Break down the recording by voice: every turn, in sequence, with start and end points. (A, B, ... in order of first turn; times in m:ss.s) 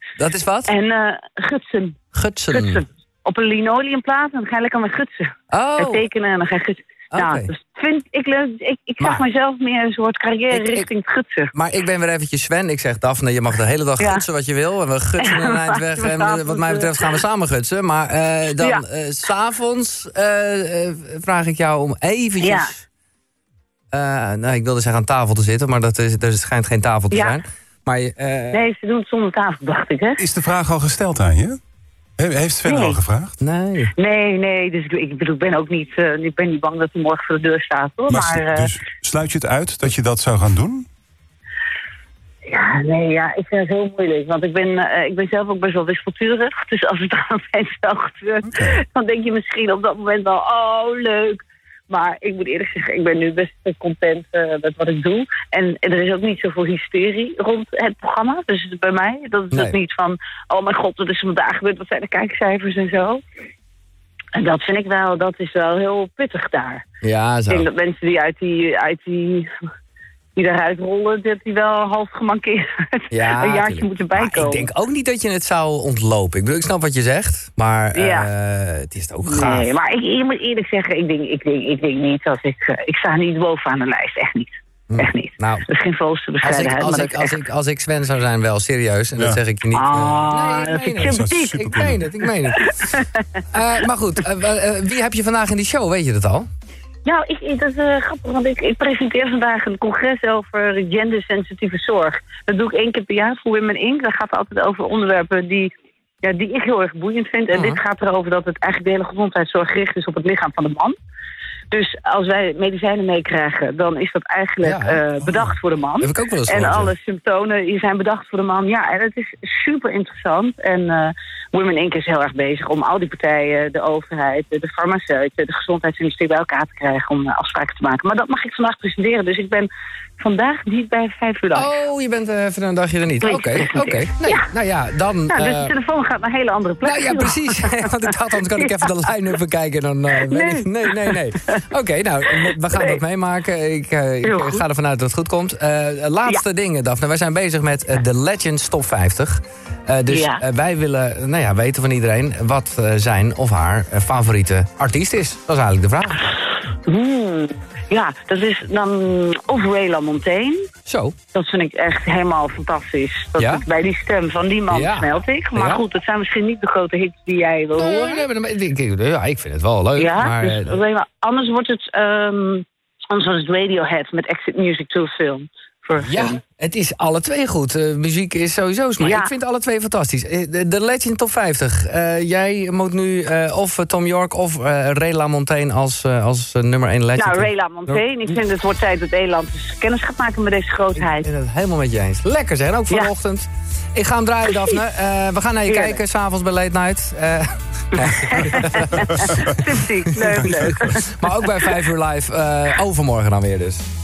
0:00.2-0:00.7 A
0:00.7-0:11.5 B
0:02.1-0:02.8 A
0:05.5-0:06.0 A
0:07.1-0:07.5 A
0:09.0-0:09.2 A
0:10.5-0:10.9 A
0:11.5-0:22.8 A
0:15.2-0:17.1 B
0:18.6-0:18.8 B
0:22.4-0:22.7 B
0:23.9-0:28.6 A
0:27.1-0:27.4 B
0:28.5-0:30.2 B
0:30.2-0:31.6 C
0:32.2-0:33.4 C
0:32.6-0:33.0 B
0:33.4-0:33.9 A
0:34.0-0:38.7 B
0:38.1-0:40.9 C
0:42.4-1:03.2 B
0:59.5-0:59.8 A
1:04.3-1:06.8 B
1:07.0-1:07.7 A
1:07.5-1:09.5 B
1:10.4-1:14.7 B
1:13.1-1:19.7 A
1:18.0-1:18.3 B
1:19.2-1:27.3 B
1:24.9-1:25.7 A
1:26.4-1:32.8 A
1:29.7-1:31.6 B
1:30.9-1:32.1 C
1:32.5-1:33.2 B
1:33.5-1:36.5 A
1:37.0-1:45.7 B
1:46.2-1:50.9 B
1:47.5-1:47.8 A
1:51.7-2:09.7 B
1:54.6-1:56.9 A
2:10.2-2:11.7 B
2:11.5-2:15.7 A
2:13.2-2:14.4 B
2:15.3-2:17.9 B
2:16.8-2:36.2 A
2:18.5-2:18.9 B
2:20.2-2:21.6 B
2:22.4-2:23.0 B
2:24.2-2:24.6 B
2:30.1-2:30.4 B
2:36.8-2:40.7 B
2:40.8-2:41.2 A
2:41.3-2:48.2 B
2:43.4-2:43.6 A
2:44.7-2:45.8 A
2:47.7-2:50.7 A
2:50.0-2:56.4 B
2:56.0-3:08.0 A
2:59.0-2:59.3 B
3:07.2-3:11.3 B
3:10.9-3:19.6 A
3:15.7-3:16.0 B
3:18.0-3:21.7 B
3:20.4-3:23.9 A